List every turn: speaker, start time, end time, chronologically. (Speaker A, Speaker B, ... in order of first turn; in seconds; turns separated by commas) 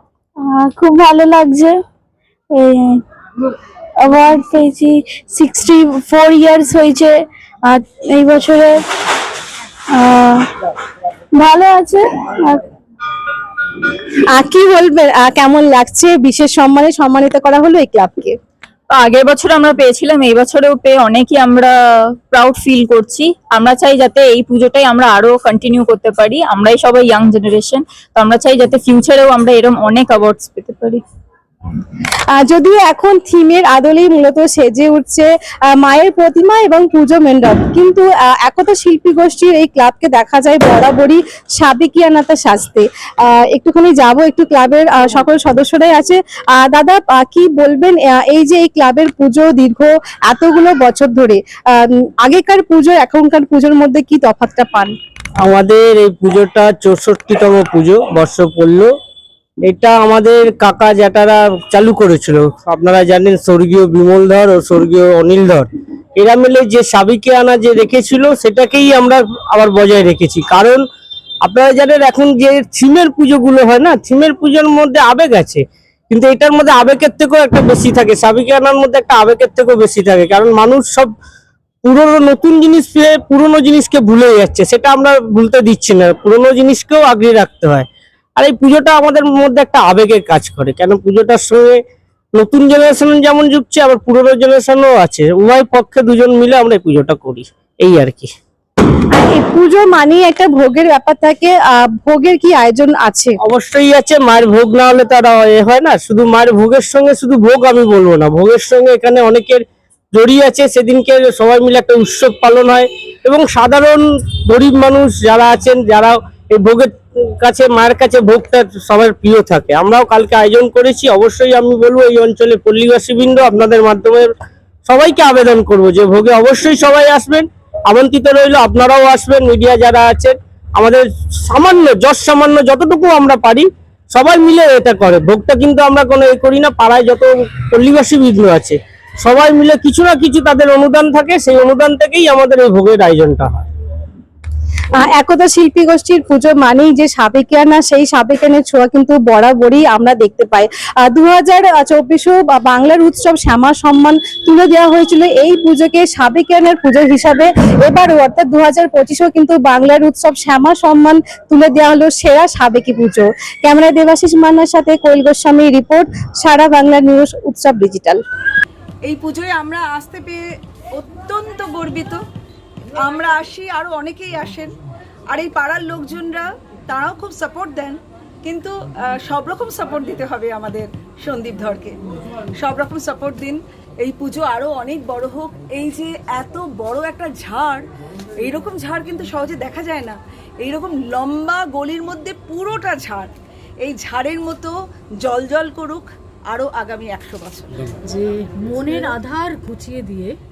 Speaker A: 0.4-1.8, Speaker A: 2.5-3.0, Speaker A: 4.0-8.8, Speaker A: 9.9-10.5, Speaker A: 11.3-12.6, Speaker B: 14.3-18.4, Speaker C: 18.9-21.7, Speaker C: 22.3-31.0, Speaker B: 32.3-54.9, Speaker D: 55.4-58.9, Speaker D: 59.7-65.6, Speaker D: 66.2-70.8, Speaker D: 71.5-75.6, Speaker D: 76.1-81.0, Speaker D: 81.9-87.8, Speaker D: 88.4-91.7, Speaker D: 92.4-98.3, Speaker B: 99.1-103.4, Speaker D: 103.5-109.6, Speaker D: 110.2-114.0, Speaker D: 114.5-116.8, Speaker D: 117.5-124.2, Speaker D: 124.9-127.4, Speaker D: 127.9-130.3, Speaker D: 131.5-137.2, Speaker D: 137.8-138.7, Speaker D: 139.3-143.5, Speaker B: 145.0-168.2, Speaker E: 169.1-170.4, Speaker E: 171.0-172.2, Speaker E: 173.0-174.7, Speaker E: 175.3-177.9, Speaker E: 179.2-181.9, Speaker E: 182.6-187.8, Speaker E: 188.5-193.3, Speaker E: 193.8-194.7, Speaker E: 195.2-197.7, Speaker F: 198.1-200.3